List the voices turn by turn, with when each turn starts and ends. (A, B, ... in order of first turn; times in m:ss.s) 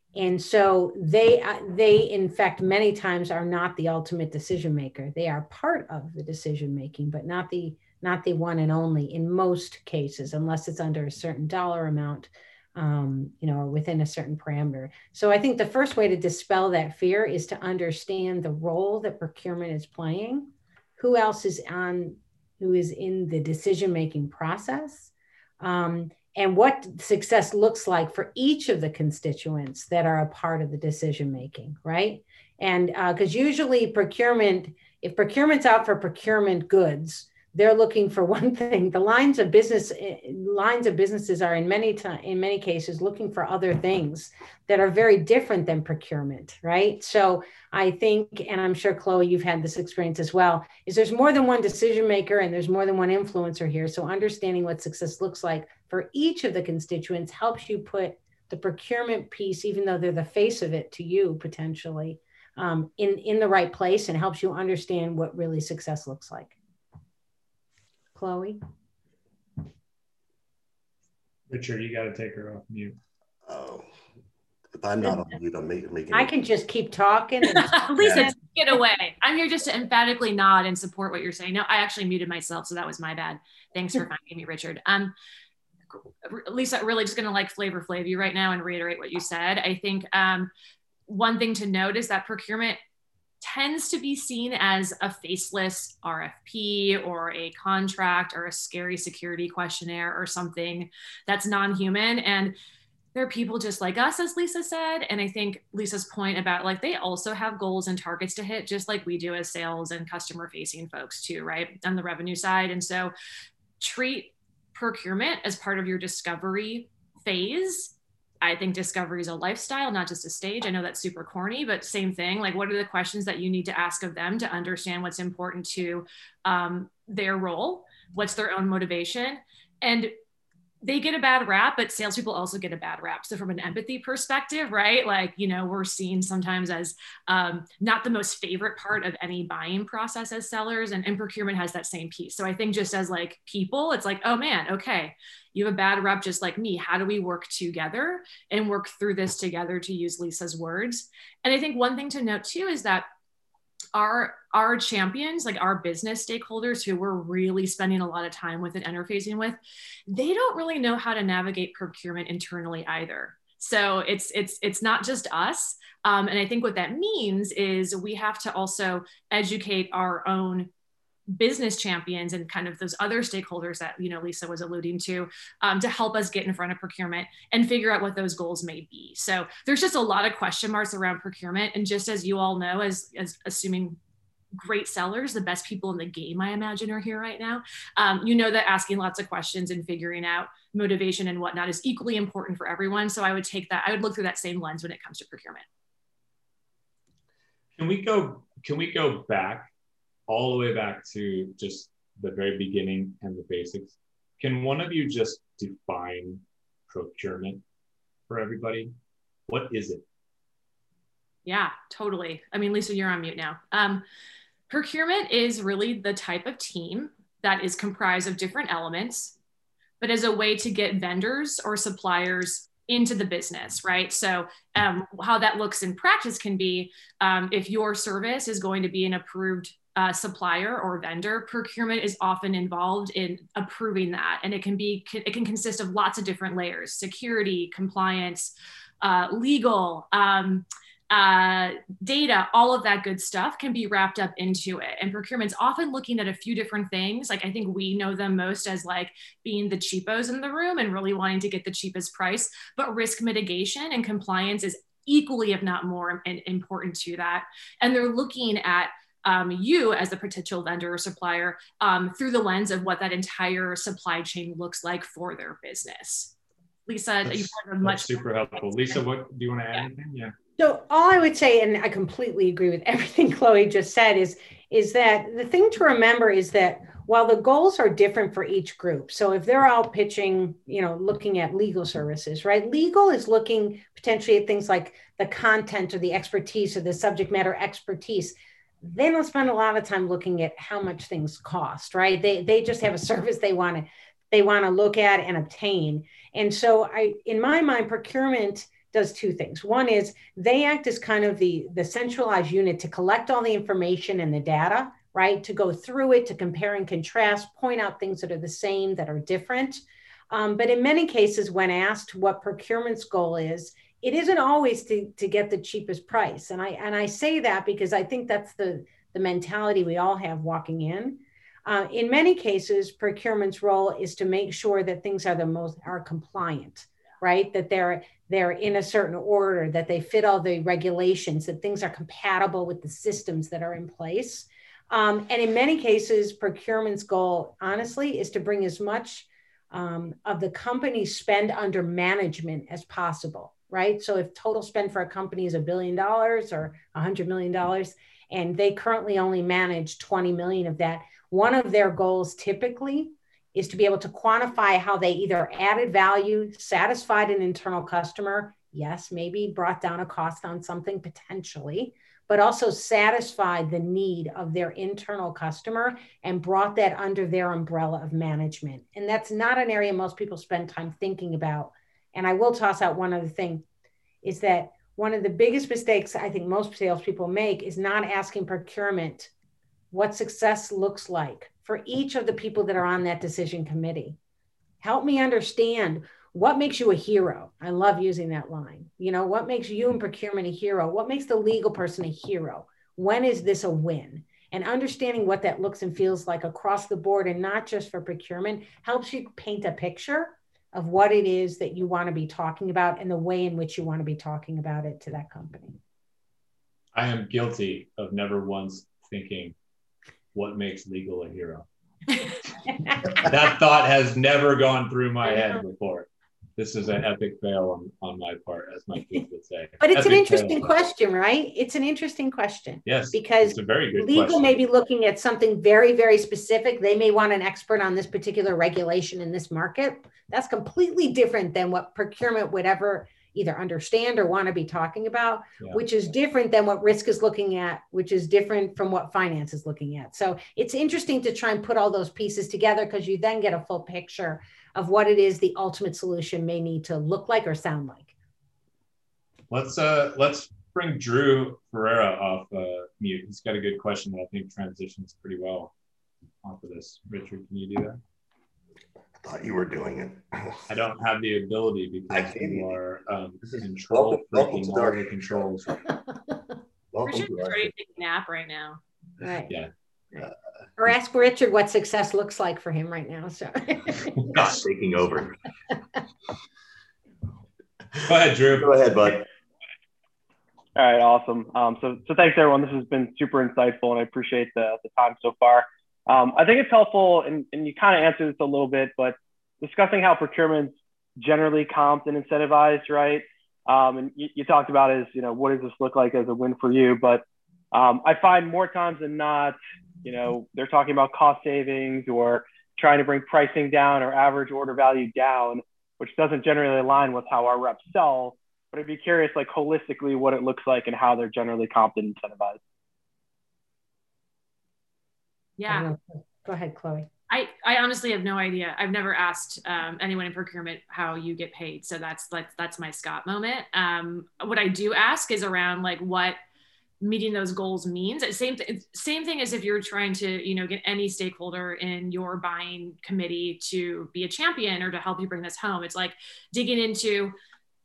0:00.1-1:06.5 A
1:08.1-1:08.6 A
1:11.5-1:13.0 B
1:13.4-1:13.9 C
1:14.7-1:16.3 C
1:16.1-1:18.3 A
1:17.5-1:25.1 D
1:18.0-1:18.3 C
1:26.2-1:30.5 D
1:31.1-1:32.8 D
1:33.4-1:42.6 D
1:43.1-1:53.1 D
1:53.8-2:10.1 D
2:10.8-2:33.0 D
2:33.9-2:50.7 D
2:51.3-3:04.0 D
3:04.6-3:15.6 D
3:17.8-3:19.7 B
3:20.3-3:27.6 B
3:28.3-3:28.9 B
3:29.5-3:30.0 B
3:31.4-3:34.0 D
3:34.7-3:39.3 D
3:40.0-4:26.3 D
4:26.9-4:29.0 D
4:27.2-4:30.3 B
4:30.6-6:13.6 A
6:14.2-6:19.3 A
6:19.9-6:24.2 A
6:24.8-6:45.8 A
6:46.9-6:49.5 B
6:50.3-6:51.6 B
6:53.2-7:00.7 B
6:55.2-6:55.6 A
6:59.8-7:28.1 A
7:02.8-7:04.5 B
7:29.5-7:35.7 B
7:36.4-7:38.0 B
7:39.2-7:40.6 C
7:40.7-7:45.8 B
7:42.1-7:42.8 C
7:43.4-7:45.7 C
7:46.9-7:47.7 C
7:47.0-7:48.8 D
7:49.2-7:49.5 A
7:50.8-7:54.4 A
7:54.3-7:55.4 C
7:58.0-7:58.8 B
7:58.4-7:59.3 C
8:00.8-8:32.6 E
8:35.6-8:35.9 D
8:35.7-8:37.1 A
8:37.3-8:46.4 D
8:47.0-8:57.3 D